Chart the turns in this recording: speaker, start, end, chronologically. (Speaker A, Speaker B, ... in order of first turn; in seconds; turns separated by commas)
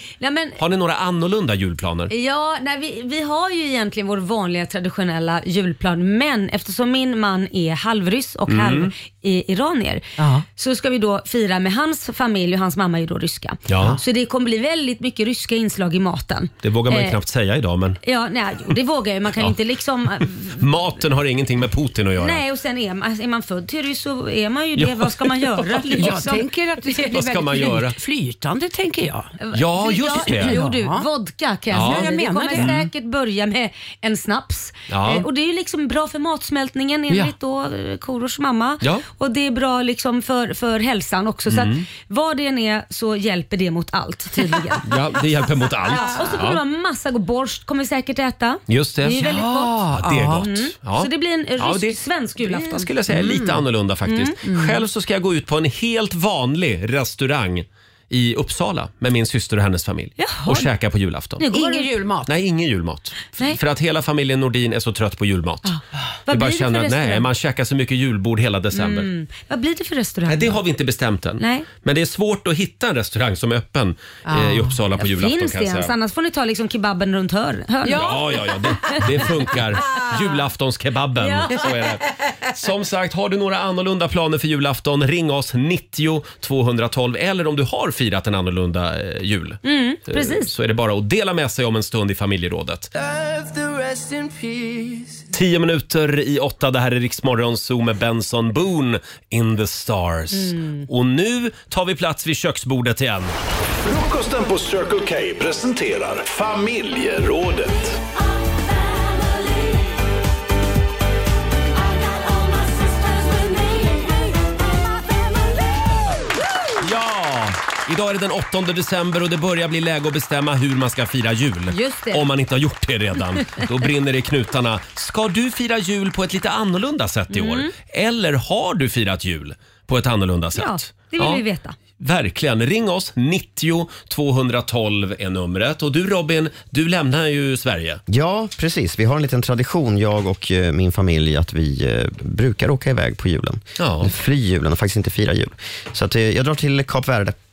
Speaker A: 0.2-0.6, Speaker B: 0.6-2.1, Speaker A: 2.1-17.2, Speaker B: 8.5-8.9, Speaker C: 10.2-10.4, Speaker B: 13.7-14.0, Speaker B: 16.6-18.0, Speaker A: 18.0-20.7, Speaker B: 20.5-22.4, Speaker A: 22.2-27.2, Speaker B: 24.8-26.2, Speaker C: 25.9-29.4, Speaker B: 27.1-28.0, Speaker A: 29.4-44.9, Speaker B: 29.5-30.6, Speaker C: 30.3-31.1, Speaker B: 31.7-32.8, Speaker C: 31.8-32.8, Speaker B: 34.9-35.3, Speaker C: 37.1-37.3, Speaker B: 41.5-41.9, Speaker C: 44.4-44.8, Speaker B: 44.9-46.6, Speaker A: 45.9-49.8, Speaker B: 48.7-49.4, Speaker C: 49.2-50.5, Speaker B: 49.9-61.5, Speaker A: 50.4-52.9, Speaker C: 53.1-53.6, Speaker A: 54.1-54.6, Speaker A: 60.2-60.7, Speaker A: 61.4-61.9, Speaker C: 61.5-62.3, Speaker B: 62.3-65.8, Speaker A: 65.7-67.3, Speaker B: 66.3-69.1, Speaker A: 68.7-70.6, Speaker B: 70.3-75.9, Speaker A: 71.4-71.7, Speaker C: 74.2-74.8, Speaker A: 75.0-78.2, Speaker C: 77.8-78.2, Speaker B: 77.9-92.9, Speaker A: 81.2-81.6, Speaker A: 89.6-90.5, Speaker D: 93.0-95.3, Speaker B: 95.3-103.3, Speaker A: 100.3-100.9, Speaker E: 103.8-108.0, Speaker B: 116.8-131.4, Speaker A: 121.7-122.2, Speaker A: 127.3-127.7, Speaker A: 130.5-131.8, Speaker B: 132.0-138.0, Speaker F: 138.1-147.3, Speaker B: 143.8-144.1